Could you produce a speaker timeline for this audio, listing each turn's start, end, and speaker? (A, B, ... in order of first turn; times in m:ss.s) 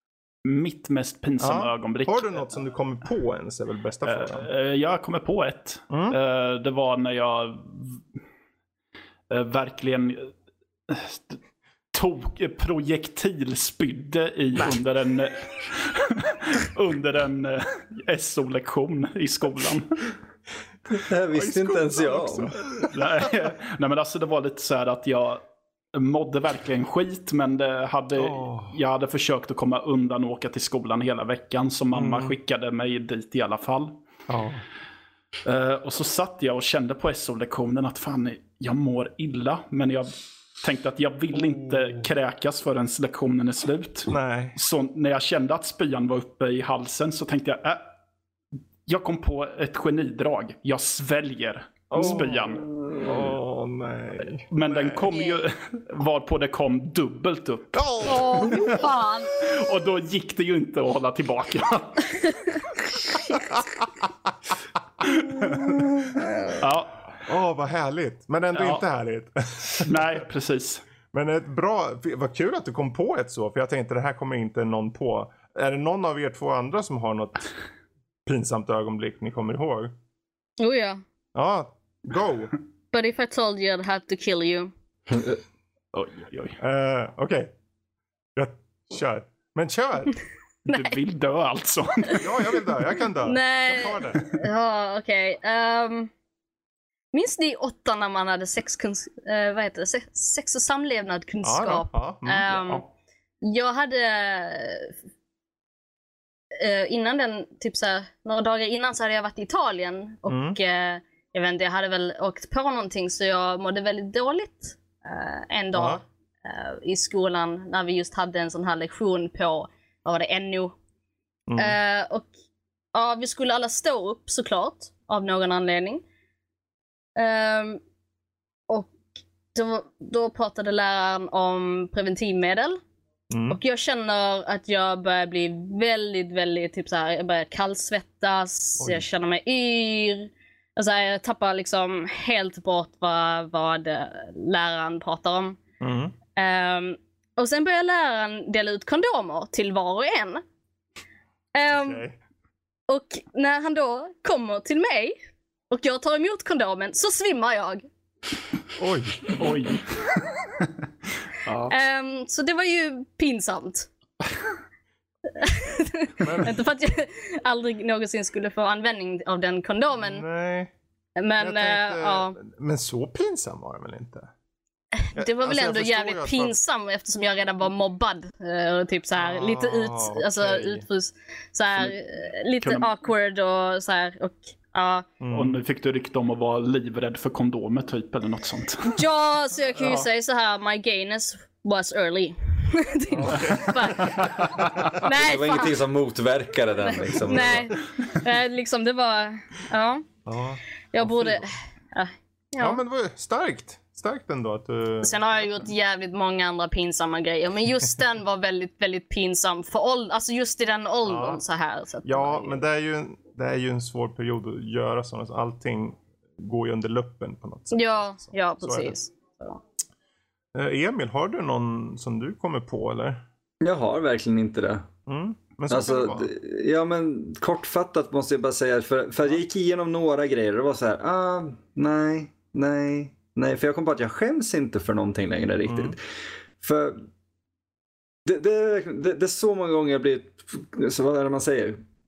0:00.4-0:02.5 A
0:01.4-0:04.5 B
0:04.1-0:08.0 A
0:05.9-0:06.2 B
0:09.3-0:10.3 A
0:10.9-0:11.4 A
0:11.9-0:19.9 A
0:20.9-0:22.6 C
0:21.3-0:23.2 B
0:22.8-0:25.4 A
0:25.9-0:34.0 A
0:28.2-0:28.8 B
0:31.9-0:32.4 B
0:34.3-0:34.6 B
0:35.4-0:47.9 A
0:41.4-0:42.0 B
0:44.1-0:44.6 B
0:48.9-0:52.7 A
0:51.9-0:55.1 B
0:54.5-0:58.6 A
0:55.1-0:55.4 D
0:57.7-0:58.9 B
0:58.0-0:59.4 D
0:59.4-1:02.4 A
1:03.1-1:04.3 B
1:05.0-1:06.3 B
1:05.1-1:05.7 A
1:06.6-1:07.2 A
1:07.2-1:10.0 B
1:08.5-1:08.8 A
1:09.8-1:10.8 A
1:11.1-1:17.5 B
1:18.3-1:19.9 B
1:20.6-1:21.0 D
1:21.4-1:22.5 B
1:22.9-1:24.7 D
1:25.1-1:25.4 C
1:25.9-1:26.6 A
1:26.6-1:27.5 B
1:28.4-1:30.2 B
1:30.7-1:32.6 A
1:30.7-1:31.0 D
1:32.1-1:34.4 B
1:33.2-1:36.1 D
1:37.1-1:42.8 D
1:41.4-1:42.8 B
1:43.4-1:44.9 D
1:46.5-2:00.8 D
1:50.3-1:50.6 B
1:55.7-1:56.0 B
2:01.5-2:01.8 B
2:01.6-2:02.3 D
2:02.9-2:06.0 D
2:07.2-2:07.8 D
2:08.7-2:09.0 D
2:09.5-2:12.8 D
2:13.3-2:13.6 B
2:13.5-2:25.6 D
2:18.8-2:19.0 B
2:25.8-2:26.2 B
2:26.4-2:30.4 D
2:31.5-2:32.1 D
2:31.7-2:32.2 B
2:32.9-2:35.2 D
2:35.7-2:37.9 D
2:38.8-2:39.5 B
2:39.4-2:40.1 A
2:41.3-2:41.7 A
2:41.7-2:43.9 D
2:45.4-2:50.2 D
2:46.2-2:46.6 B
2:50.0-2:50.7 B
2:51.2-2:52.4 D
2:51.4-2:54.3 B
2:54.9-3:05.1 D
2:55.2-2:56.6 B
2:59.2-3:00.9 B
3:02.6-3:02.9 A
3:05.2-3:05.6 B
3:05.3-3:09.0 A
3:08.8-3:15.8 D
3:09.8-3:10.1 B
3:13.1-3:15.0 B
3:15.0-3:17.7 C
3:16.8-3:20.1 D
3:17.4-3:17.6 B
3:20.3-3:21.5 B
3:20.9-3:22.8 D
3:22.6-3:25.1 B
3:25.0-3:32.6 D
3:31.1-3:31.4 B
3:32.0-3:39.0 B
3:37.7-3:39.6 D
3:40.6-3:43.2 B
3:43.6-3:44.9 C
3:45.1-3:46.3 B
3:45.7-3:56.0 C
3:55.7-3:56.0 B
3:56.6-3:57.0 C
3:58.2-4:01.8 C